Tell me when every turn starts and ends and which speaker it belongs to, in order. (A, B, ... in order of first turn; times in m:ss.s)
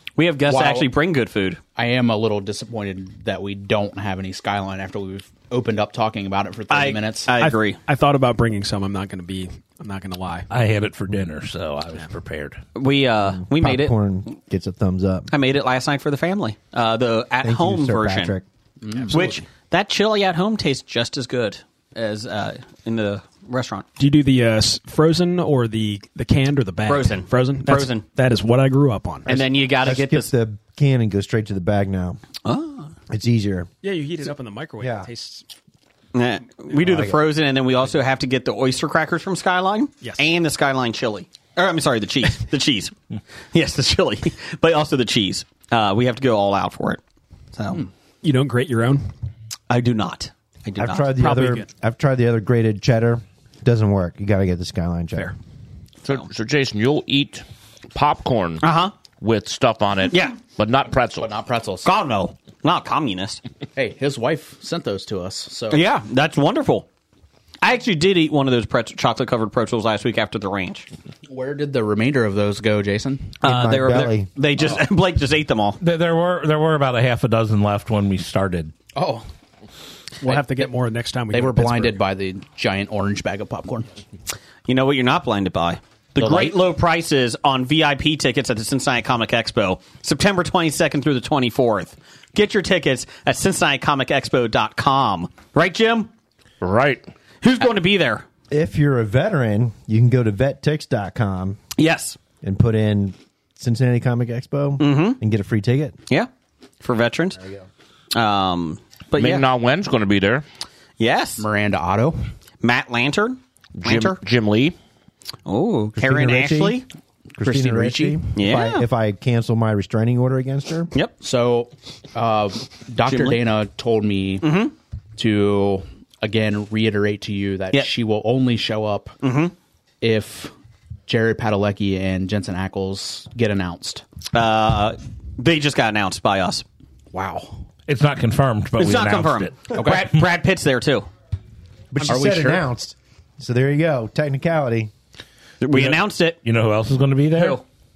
0:00.2-0:01.6 A
0:00.5-0:00.9 B
0:01.8-0:07.3 B
0:06.7-0:07.8 A
0:07.4-0:10.5 C
0:10.5-0:12.6 D
0:12.7-0:13.9 A
0:13.2-0:15.3 E
0:15.3-0:18.3 A
0:17.4-0:18.4 E
0:18.8-0:19.3 B
0:19.0-0:19.4 C
0:19.1-0:23.9 A
0:24.0-0:29.3 C
0:26.9-0:28.0 A
0:29.2-0:30.3 A
0:29.2-0:32.2 E
0:32.4-0:32.9 A
0:33.1-0:33.7 E
0:33.8-0:35.4 C
0:34.8-0:35.1 E
0:36.1-0:42.9 A
0:36.7-0:37.2 E
0:43.5-0:47.0 A
0:47.5-0:47.8 A
0:48.2-0:49.1 C
0:49.7-0:51.3 A
0:50.8-0:55.3 E
0:51.2-0:51.6 C
0:56.0-0:57.4 F
0:57.9-0:58.6 F
0:58.6-0:58.9 A
0:59.2-1:01.3 F
1:00.1-1:00.4 A
1:01.2-1:01.9 B
1:01.8-1:03.4 A
1:03.8-1:05.8 B
1:05.7-1:06.9 A
1:07.6-1:10.9 A
1:11.3-1:13.4 B
1:13.4-1:14.3 E
1:13.4-1:15.8 A
1:15.8-1:18.7 D
1:18.9-1:19.2 B
1:20.2-1:22.0 C
1:20.2-1:20.7 B
1:21.3-1:23.9 B
1:24.6-1:36.1 A
1:26.2-1:26.6 B
1:36.6-1:37.0 F
1:37.4-1:38.2 A
1:38.5-1:41.6 E
1:41.8-1:42.2 A
1:42.4-1:46.0 E
1:44.8-1:45.2 A
1:46.8-1:47.4 A
1:47.4-1:47.7 E
1:48.1-1:49.4 A
1:49.2-1:50.4 F
1:51.0-1:51.4 A
1:51.4-1:52.2 B
1:52.6-1:54.2 A
1:53.8-1:54.7 F
1:55.4-1:56.8 A
1:56.0-1:56.8 E
1:57.4-2:00.9 E
1:57.4-1:58.2 B
1:58.3-1:58.9 A
2:01.2-2:04.4 B
2:03.0-2:03.4 A
2:04.4-2:04.7 A
2:05.2-2:09.2 B
2:09.2-2:09.5 A
2:10.0-2:10.5 B
2:11.1-2:14.0 B
2:14.3-2:16.6 A
2:17.1-2:17.6 B
2:17.9-2:19.8 D
2:18.8-2:21.1 A
2:19.7-2:20.1 B
2:21.9-2:24.9 E
2:22.0-2:22.6 B
2:25.6-2:26.4 A
2:25.7-2:27.6 D
2:27.3-2:27.6 A